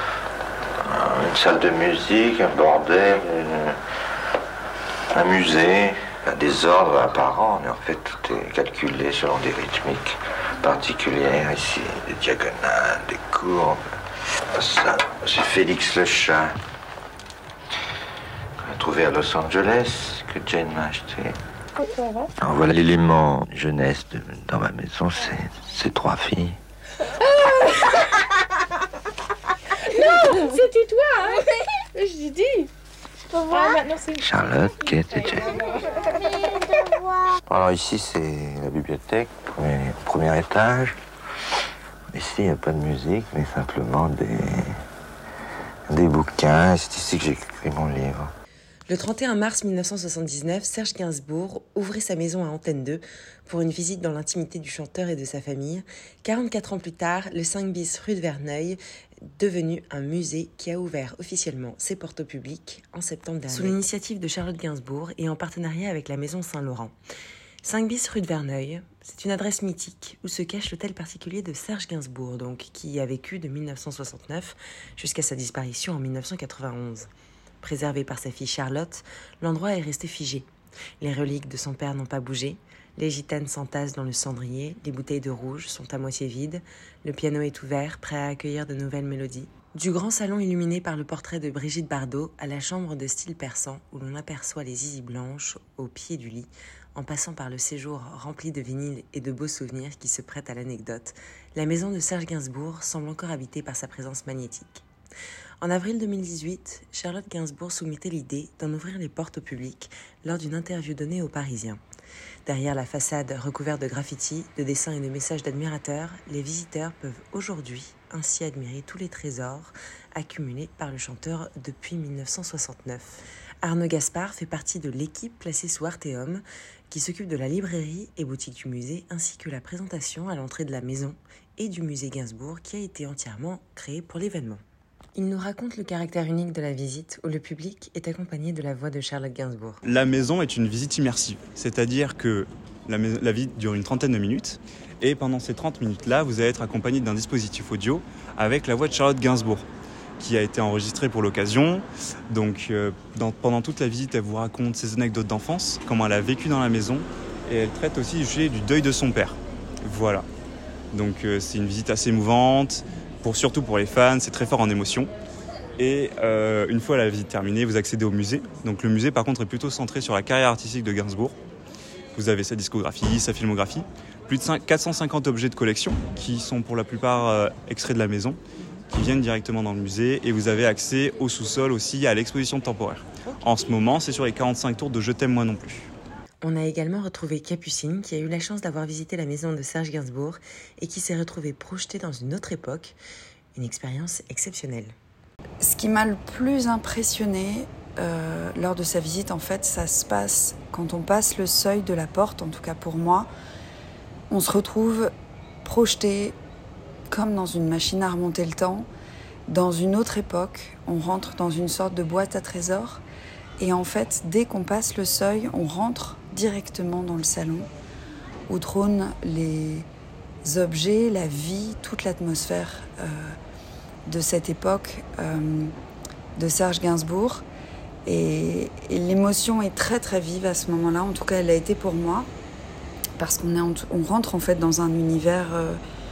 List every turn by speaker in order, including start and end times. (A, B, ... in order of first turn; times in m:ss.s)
0:00.8-0:03.8 A
0:05.1-0:13.8 A
0:14.5-0:16.6 A
0:18.6-0:21.4 A
0:21.8-0:22.3 B
0:22.4-0:26.6 A
0:27.4-0:27.8 B
0:30.0-0:32.7 B
0:33.3-0:34.3 B
0:34.2-0:35.6 A
0:37.4-0:41.0 A
0:42.1-0:44.8 A
0:45.9-0:48.3 A
0:48.9-0:58.8 C
0:59.4-1:06.9 C
1:07.6-1:17.1 C
1:17.6-1:20.5 C
1:21.0-1:44.8 C
1:45.6-1:51.8 C
1:52.4-2:14.6 C
2:15.2-2:19.8 C
2:19.8-2:29.7 D
2:30.2-2:40.2 D
2:40.9-2:45.1 D
2:45.8-2:51.3 D
2:52.1-2:58.4 D
2:58.9-3:05.9 D
3:06.4-3:13.0 C
3:13.5-3:14.9 C
3:15.6-3:23.3 E
3:24.3-3:25.1 E
3:25.6-3:26.4 E
3:27.1-3:28.9 E
3:29.5-3:33.0 E
3:33.6-3:37.7 E
3:38.5-3:39.9 E
3:40.4-3:43.4 E
3:44.0-3:45.7 E
3:46.4-3:47.4 E
3:48.0-3:52.3 E
3:53.2-3:55.8 E